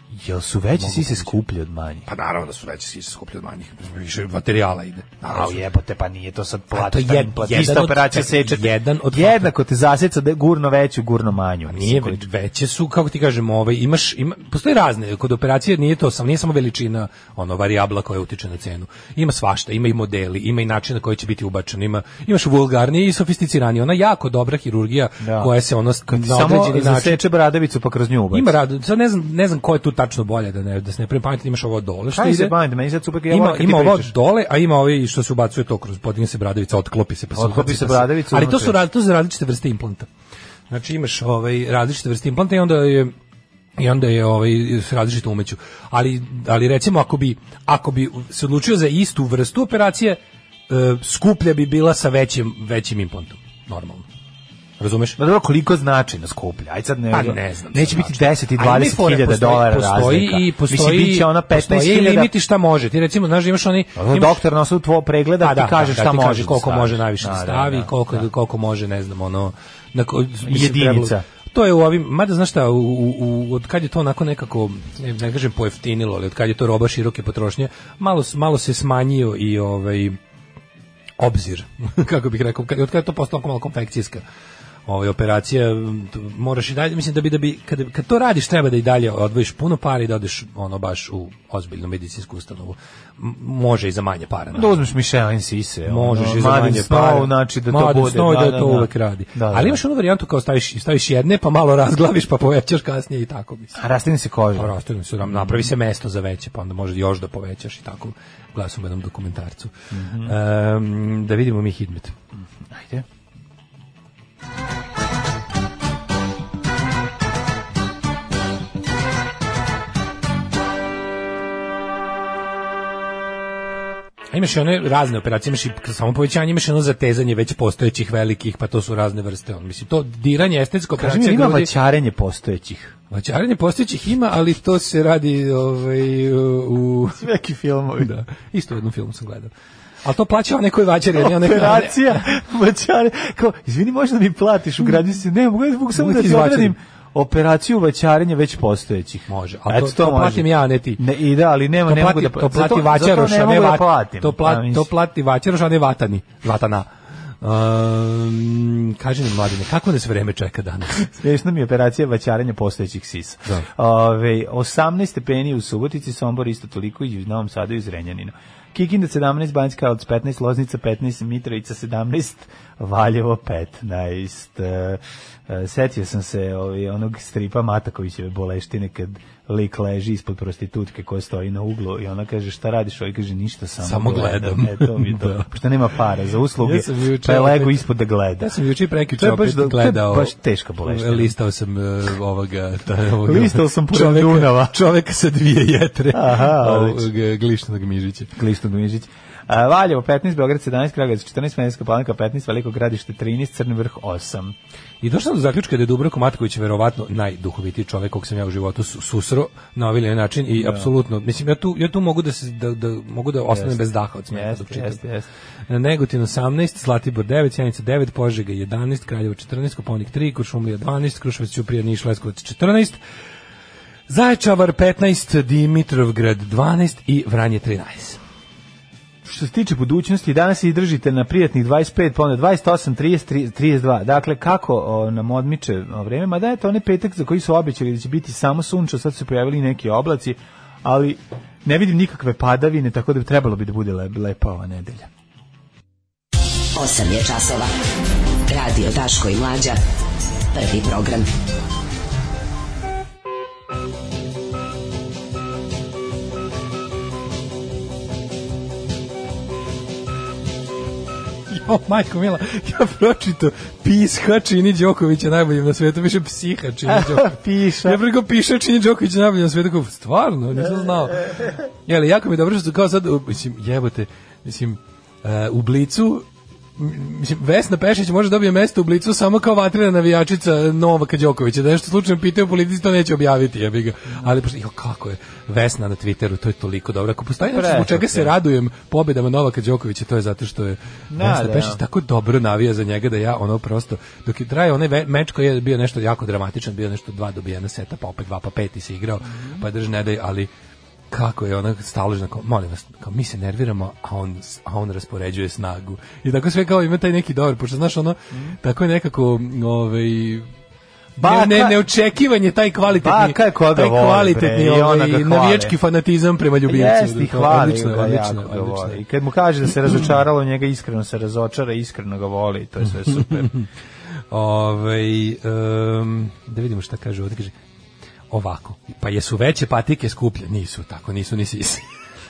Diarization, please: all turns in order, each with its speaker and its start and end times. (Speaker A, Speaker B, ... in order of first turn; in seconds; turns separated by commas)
Speaker A: 0.1-2.1, Speaker B: 0.8-1.4, Speaker B: 2.1-5.6, Speaker A: 5.2-12.3, Speaker B: 6.7-9.5, Speaker B: 11.7-27.2, Speaker A: 25.2-25.6, Speaker A: 26.1-28.6, Speaker B: 28.3-32.5, Speaker A: 32.1-34.1, Speaker B: 33.3-40.1, Speaker A: 37.3-38.8, Speaker B: 40.7-43.1, Speaker B: 43.8-54.1, Speaker B: 54.8-55.2, Speaker A: 55.2-62.3, Speaker B: 57.1-64.4, Speaker A: 64.0-68.3, Speaker B: 65.4-80.2, Speaker A: 70.4-71.2, Speaker B: 81.2-84.2, Speaker B: 84.9-94.8, Speaker A: 94.5-99.8, Speaker B: 95.9-103.8, Speaker A: 103.8-105.7, Speaker B: 104.6-109.7, Speaker A: 109.9-110.3, Speaker B: 110.2-112.1, Speaker A: 112.3-113.0, Speaker B: 124.3-131.7, Speaker A: 131.0-132.9, Speaker B: 133.1-137.3, Speaker A: 137.1-138.1, Speaker B: 138.0-139.5, Speaker B: 140.0-142.2, Speaker A: 141.1-154.9, Speaker B: 145.9-146.7, Speaker B: 149.3-151.0, Speaker B: 151.9-156.9, Speaker B: 157.4-161.1, Speaker A: 161.2-188.5, Speaker B: 183.8-185.5, Speaker B: 186.6-187.8, Speaker B: 188.4-198.3, Speaker A: 189.1-191.3, Speaker A: 193.2-194.8, Speaker A: 196.1-197.1, Speaker A: 198.3-204.6, Speaker B: 205.0-215.0, Speaker A: 210.6-210.9, Speaker A: 213.5-215.3, Speaker B: 215.7-223.0, Speaker B: 224.1-228.2, Speaker A: 229.2-245.1, Speaker C: 246.8-247.7, Speaker C: 248.5-249.8, Speaker C: 250.6-251.2, Speaker B: 261.5-276.2, Speaker A: 266.9-268.0, Speaker B: 276.8-300.5, Speaker A: 287.4-288.3, Speaker A: 291.1-291.8, Speaker A: 299.3-299.6, Speaker B: 301.1-310.5, Speaker B: 311.2-319.0, Speaker A: 311.2-311.8, Speaker A: 312.9-315.7, Speaker A: 316.6-323.5, Speaker B: 323.1-323.7, Speaker B: 324.3-327.5, Speaker B: 328.3-331.8